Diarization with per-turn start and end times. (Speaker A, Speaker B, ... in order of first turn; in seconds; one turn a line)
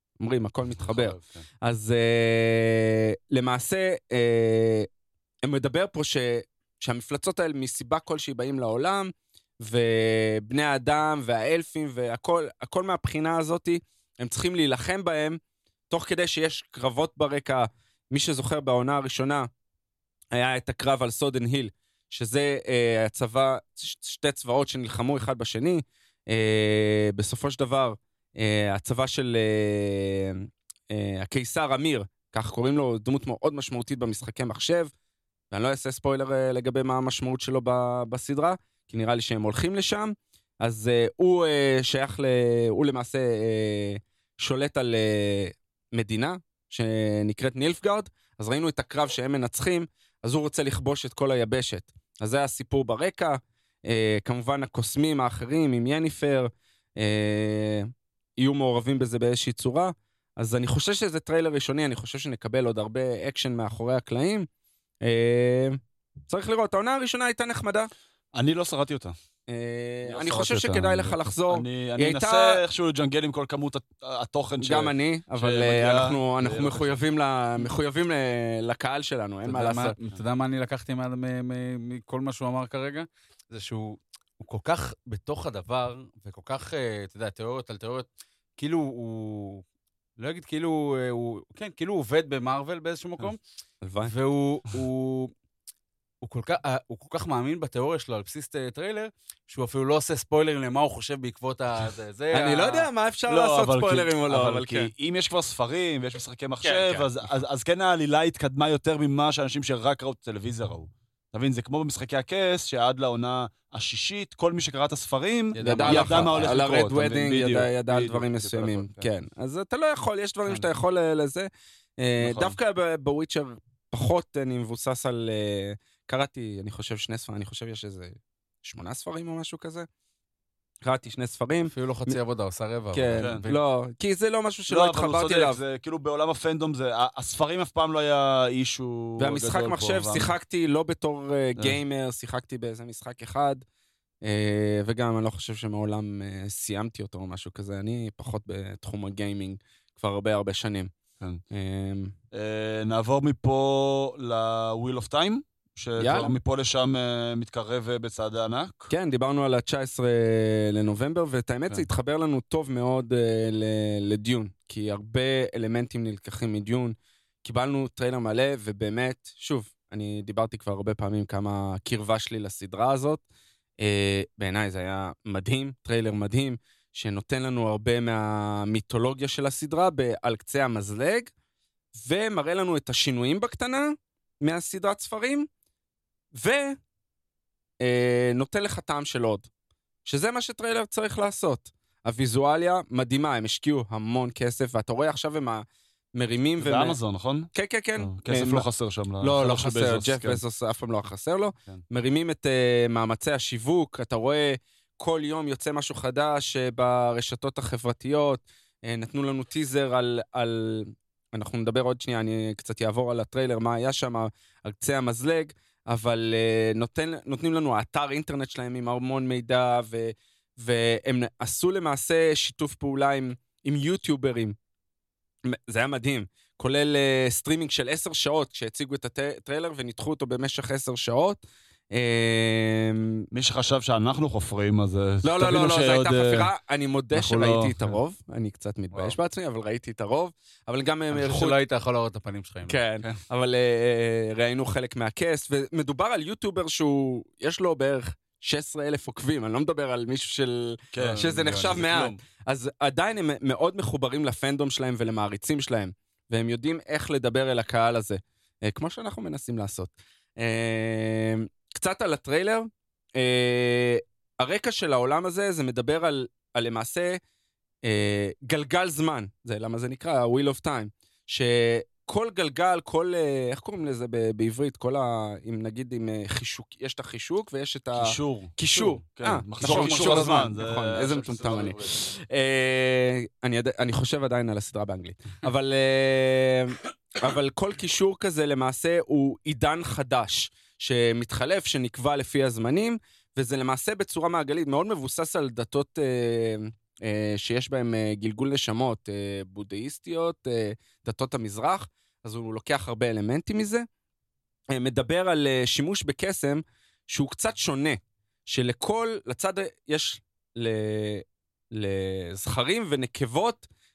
Speaker A: 0.2-4.9
Speaker B: 0.8-1.4
Speaker A: 5.4-15.4
Speaker A: 15.9-19.5
Speaker A: 20.3-34.9
Speaker A: 35.5-64.5
Speaker A: 65.0-67.9
Speaker B: 68.3-69.1
Speaker A: 69.5-72.6
Speaker B: 70.1-76.9
Speaker A: 74.6-79.9
Speaker C: 79.5-89.6
Speaker C: 90.2-93.4
Speaker A: 93.8-94.1
Speaker C: 94.0-95.3
Speaker C: 96.2-102.9
Speaker A: 102.3-104.9
Speaker B: 103.3-119.1
Speaker A: 106.6-107.0
Speaker C: 115.5-116.6
Speaker A: 115.6-121.5
Speaker A: 122.0-129.9
Speaker B: 122.2-122.6
Speaker A: 130.8-132.2
Speaker C: 131.7-133.6
Speaker A: 132.9-135.6
Speaker B: 133.2-133.4
Speaker B: 134.7-140.3
Speaker A: 139.2-143.6
Speaker A: 144.2-150.9
Speaker A: 151.5-152.1
Speaker B: 152.3-158.9
Speaker A: 156.0-156.3
Speaker A: 158.9-173.2
Speaker A: 173.8-181.3
Speaker A: 181.9-185.5
Speaker A: 186.3-186.8
Speaker A: 187.8-189.5
Speaker A: 190.0-197.0
Speaker B: 196.6-200.4
Speaker A: 197.5-198.7
Speaker A: 199.2-224.6
Speaker A: 225.4-231.4
Speaker A: 231.9-233.2
Speaker B: 233.3-236.5
Speaker A: 235.2-241.6
Speaker B: 237.1-238.0
Speaker C: 241.1-242.8
Speaker A: 242.7-267.2
Speaker B: 250.9-252.2
Speaker A: 267.8-303.9
Speaker B: 277.9-281.9
Speaker C: 279.6-280.4
Speaker A: 304.7-313.7